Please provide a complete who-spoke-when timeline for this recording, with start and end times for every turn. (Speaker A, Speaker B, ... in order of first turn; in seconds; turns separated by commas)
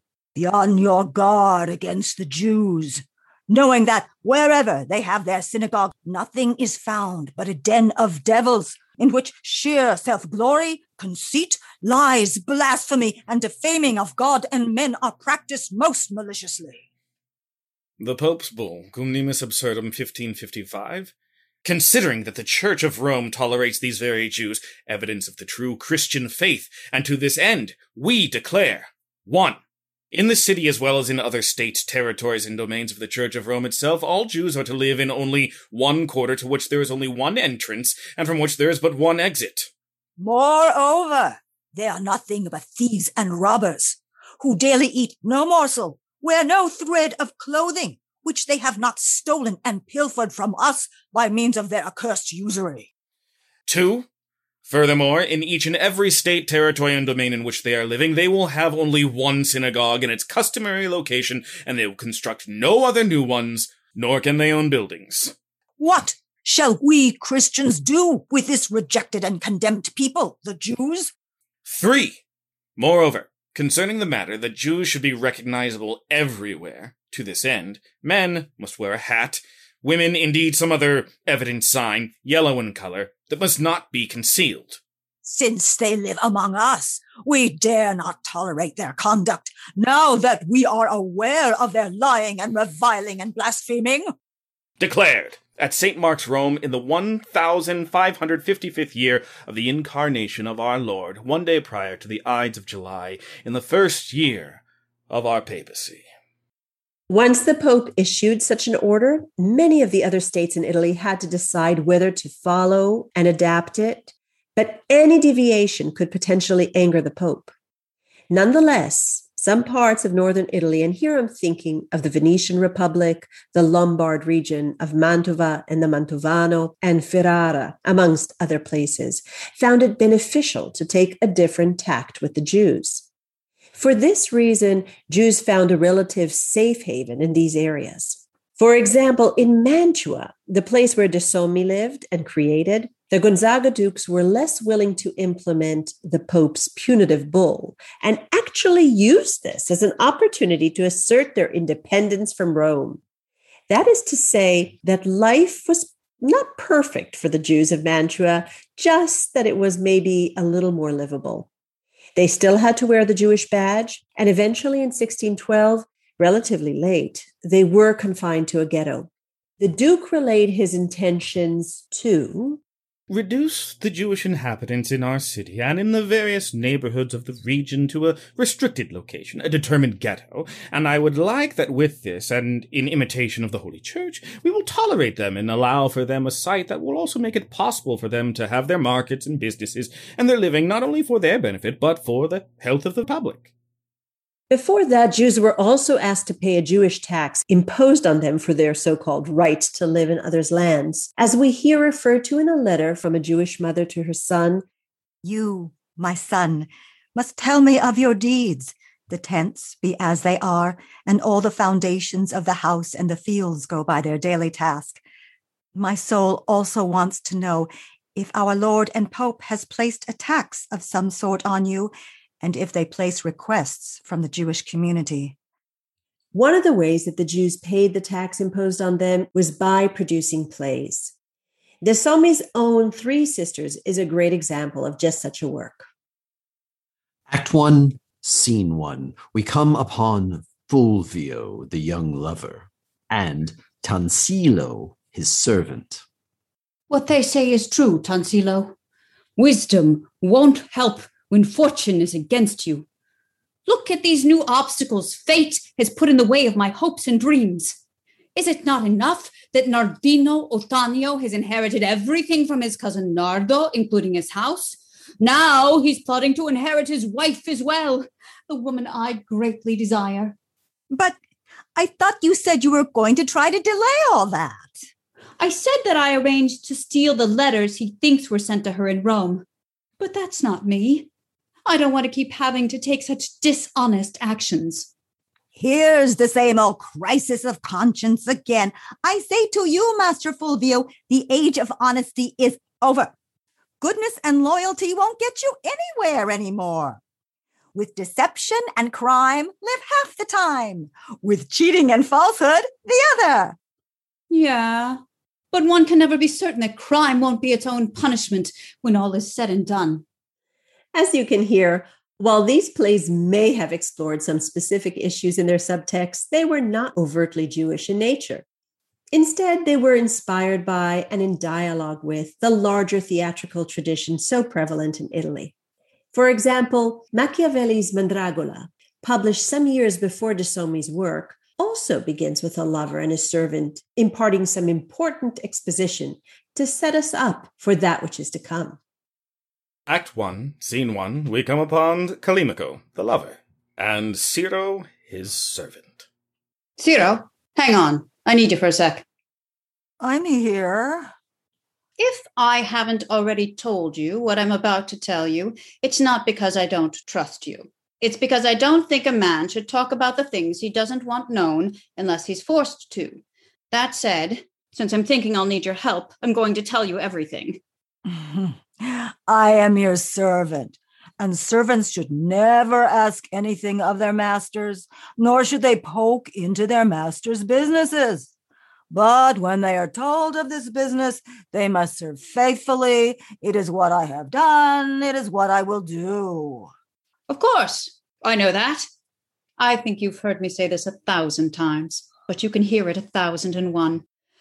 Speaker A: 0.3-16.8, Speaker B: 18.0-21.1, Speaker B: 21.6-29.6, Speaker B: 30.1-39.7, Speaker A: 40.2-52.9, Speaker B: 53.7-54.1, Speaker B: 54.6-65.3, Speaker A: 65.8-71.1, Speaker B: 71.6-72.2, Speaker B: 72.8-84.8, Speaker A: 85.2-94.1, Speaker B: 94.8-106.1, Speaker C: 107.1-117.5, Speaker C: 118.3-133.1, Speaker C: 133.7-153.0, Speaker C: 153.7-161.5, Speaker C: 162.2-169.1, Speaker C: 169.6-172.6, Speaker B: 173.1-193.5, Speaker C: 194.5-204.6, Speaker A: 205.2-215.0, Speaker A: 215.7-225.3, Speaker C: 226.3-231.1, Speaker C: 231.8-235.8, Speaker D: 237.3-246.0, Speaker E: 246.9-248.7, Speaker E: 249.4-252.8, Speaker E: 253.7-257.8, Speaker E: 258.4-270.3, Speaker A: 270.9-271.1, Speaker A: 271.8-274.8, Speaker E: 275.4-279.4, Speaker E: 280.0-281.1, Speaker E: 281.6-284.9, Speaker A: 285.5-293.1, Speaker A: 293.8-297.0, Speaker A: 297.7-303.6, Speaker E: 304.3-305.0, Speaker E: 305.5-310.0, Speaker C: 310.9-318.4, Speaker C: 319.1-325.5, Speaker C: 326.1-338.8, Speaker B: 339.9-346.1, Speaker E: 346.8-349.0, Speaker A: 350.0-351.1, Speaker E: 352.0-367.6, Speaker A: 368.1-378.3, Speaker A: 378.9-386.7, Speaker E: 387.3-388.9, Speaker E: 389.6-394.0